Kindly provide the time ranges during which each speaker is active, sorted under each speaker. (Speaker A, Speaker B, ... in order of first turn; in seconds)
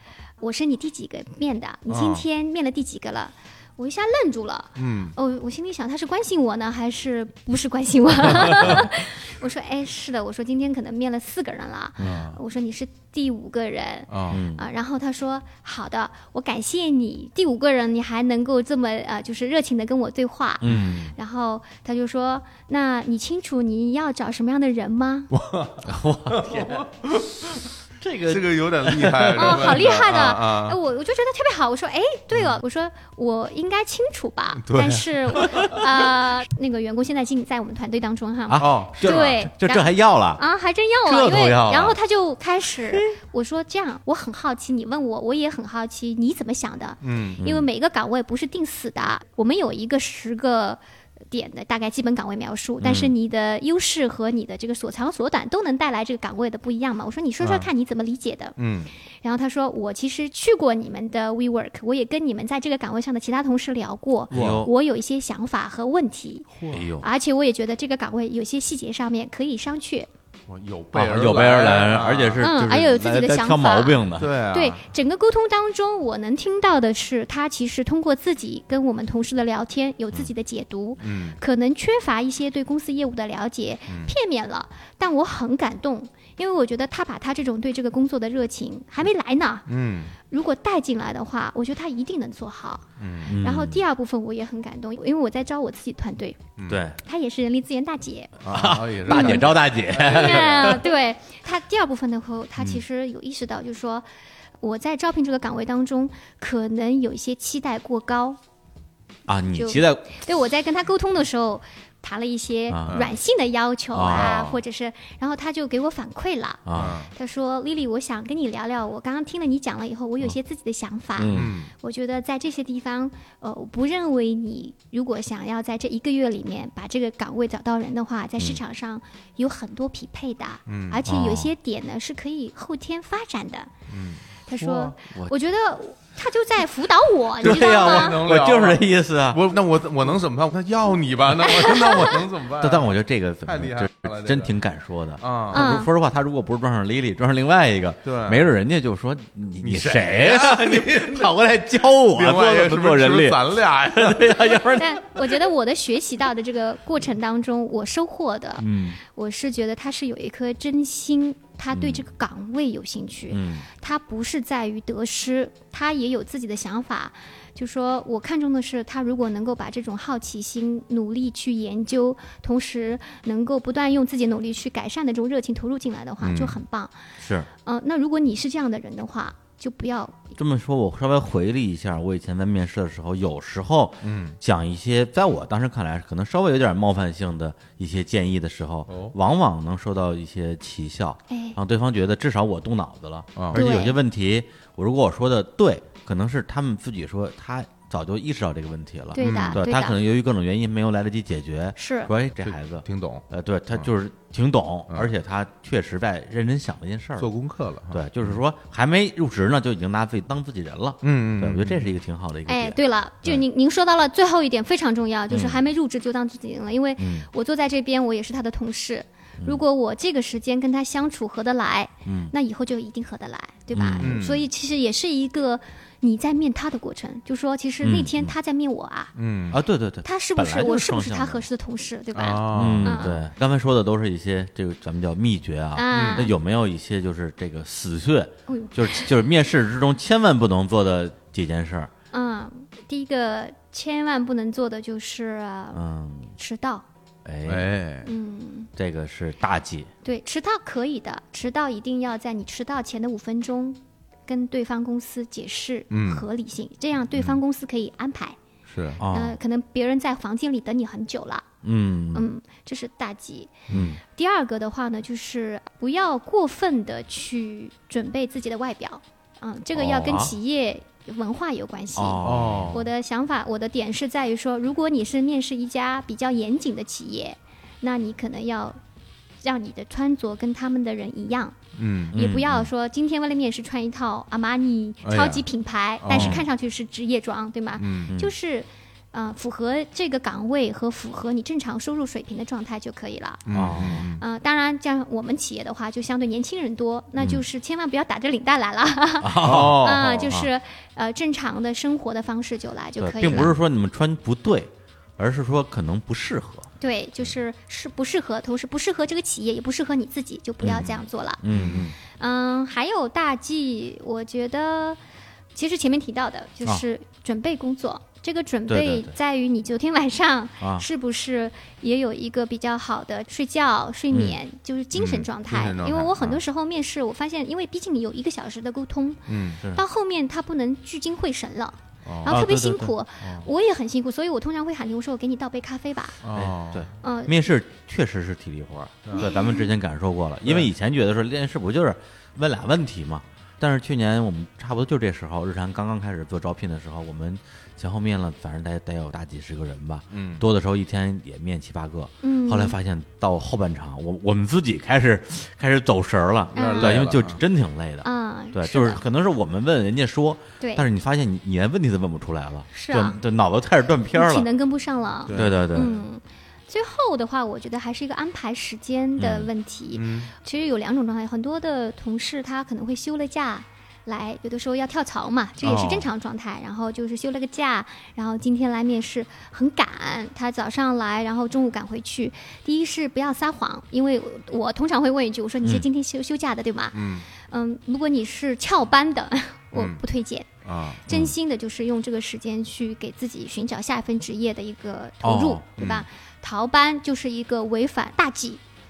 Speaker A: 0.4-25.3, 29.4-50.8, 51.3-58.6, 59.2-70.1, 72.4-89.7, 90.3-96.4, 97.0-98.4, 99.1-104.1, 104.6-108.4, 109.5-133.7, 134.5-138.2, 141.6-142.2, 145.5-145.9, 154.7-176.9, 177.6-180.4, 191.3-191.6, 193.5-194.0, 199.1-200.0, 201.8-202.1, 212.5-229.1, 230.0-233.2, 235.8-236.3, 238.5-239.1, 242.1-245.8, 246.4-246.8, 248.0-248.7, 250.0-258.4, 259.1-261.5, 262.1-278.8, 279.4-281.6, 282.1-303.6, 306.8-311.4, 312.1-315.0, 315.5-336.2, 337.0-337.4, 339.2-339.7, 352.2-352.8, 356.6-357.0, 358.0-359.0, 360.6-360.9, 362.7-363.2, 364.1-390.5, 391.1-398.6
Speaker B: 1.9-2.2, 4.8-5.2, 14.1-14.4, 20.6-20.9, 25.3-27.3, 28.3-30.8, 34.6-35.5, 38.6-39.4, 47.0-47.4, 57.4-57.7, 58.6-58.9, 64.3-64.7, 66.5-66.8, 70.5-72.5, 74.2-74.8, 81.0-81.4, 83.9-84.1, 89.7-90.2, 93.0-93.3, 96.6-96.8, 98.4-100.8, 112.9-113.1, 114.1-114.6, 116.8-117.1, 121.3-121.7, 130.7-131.0, 133.9-134.9, 137.4-144.6, 145.2-145.8, 148.0-148.5, 149.6-151.4, 152.1-154.6, 176.2-176.6, 184.0-184.4, 188.9-189.2, 193.4-193.6, 199.2-199.6, 202.4-203.9, 207.2-208.3, 211.0-211.9, 224.0-224.5, 229.2-229.6, 232.2-233.1, 235.9-236.3, 247.5-248.1, 255.9-256.2, 258.7-259.0, 272.2-272.9, 281.8-282.1, 285.0-285.5, 286.0-286.4, 287.8-288.1, 293.5-294.2, 299.4-300.3, 311.5-311.9, 324.9-326.4, 329.3-329.6, 332.1-332.4, 336.2-336.9, 350.1-350.4, 356.6-357.4, 365.3-365.9, 369.9-370.3, 375.6-376.1, 386.9-387.3, 389.7-390.0, 390.6-391.0
Speaker C: 12.0-12.3, 14.3-14.6, 20.6-21.1, 25.8-29.8, 35.6-35.8, 38.5-40.4, 41.0-42.0, 47.4-47.7, 52.8-53.1, 64.3-64.7, 66.7-67.1, 70.9-74.3, 93.3-93.8, 96.7-97.0, 98.5-100.8, 109.3-110.1, 112.7-113.0, 113.9-114.5, 116.7-117.0, 121.2-121.5, 131.1-131.5, 134.9-135.3, 137.4-139.4, 142.6-155.4, 158.6-159.0, 161.7-162.1, 163.3-163.7, 177.2-177.5, 180.4-207.3, 207.9-213.4, 215.3-215.6, 217.0-217.3, 222.1-222.3, 223.7-224.2, 227.8-228.3, 229.5-231.4, 232.5-241.9, 245.7-246.3, 247.2-247.7, 248.8-249.9, 259.0-259.4, 261.6-262.3, 263.7-264.0, 269.8-270.4, 271.9-272.8, 282.1-282.7, 286.1-286.4, 288.1-288.3, 293.5-294.0, 297.2-297.4, 299.2-300.5, 303.0-306.7, 310.6-312.0, 318.7-319.1, 320.6-320.9, 324.1-324.4, 332.2-332.9, 336.3-364.5, 365.3-365.9, 369.2-369.5, 391.1-391.4, 395.2-396.1